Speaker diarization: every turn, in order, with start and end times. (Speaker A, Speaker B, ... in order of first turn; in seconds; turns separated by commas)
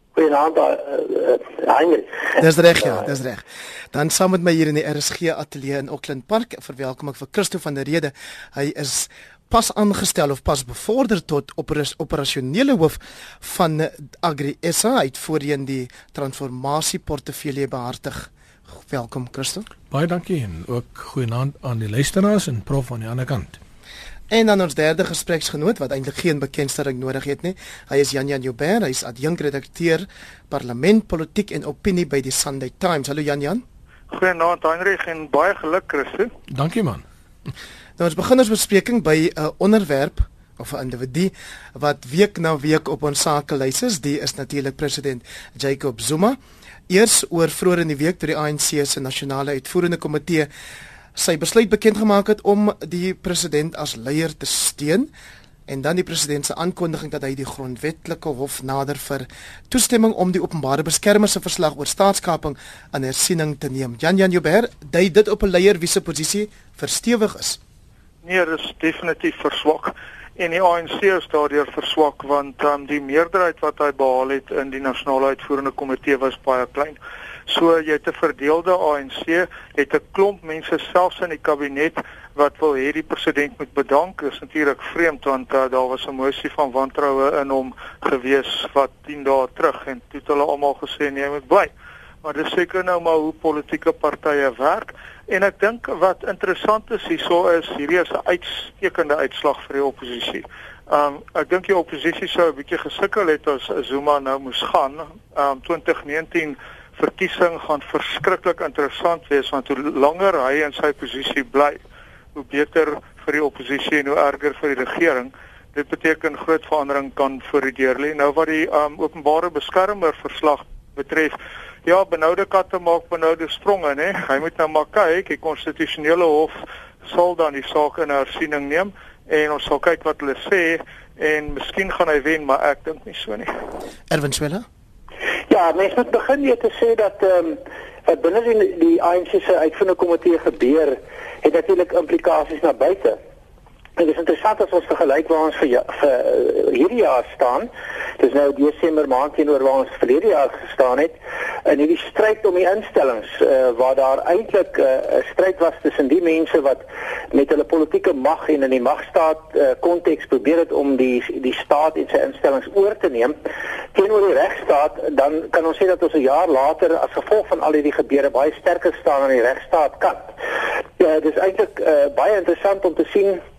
Speaker A: 0.1-2.4, Speaker B: 2.4-19.7, Speaker C: 19.9-23.6, Speaker B: 24.3-33.6, Speaker D: 34.1-36.3, Speaker C: 36.5-37.0, Speaker B: 38.0-46.4, Speaker B: 46.9-50.5, Speaker B: 51.1-55.1, Speaker B: 55.7-67.6, Speaker D: 68.2-91.7, Speaker D: 92.2-111.8, Speaker D: 112.3-133.5, Speaker B: 134.1-134.6, Speaker A: 135.5-143.2, Speaker A: 144.0-151.1, Speaker A: 151.7-163.3, Speaker A: 163.9-170.3, Speaker A: 171.0-173.4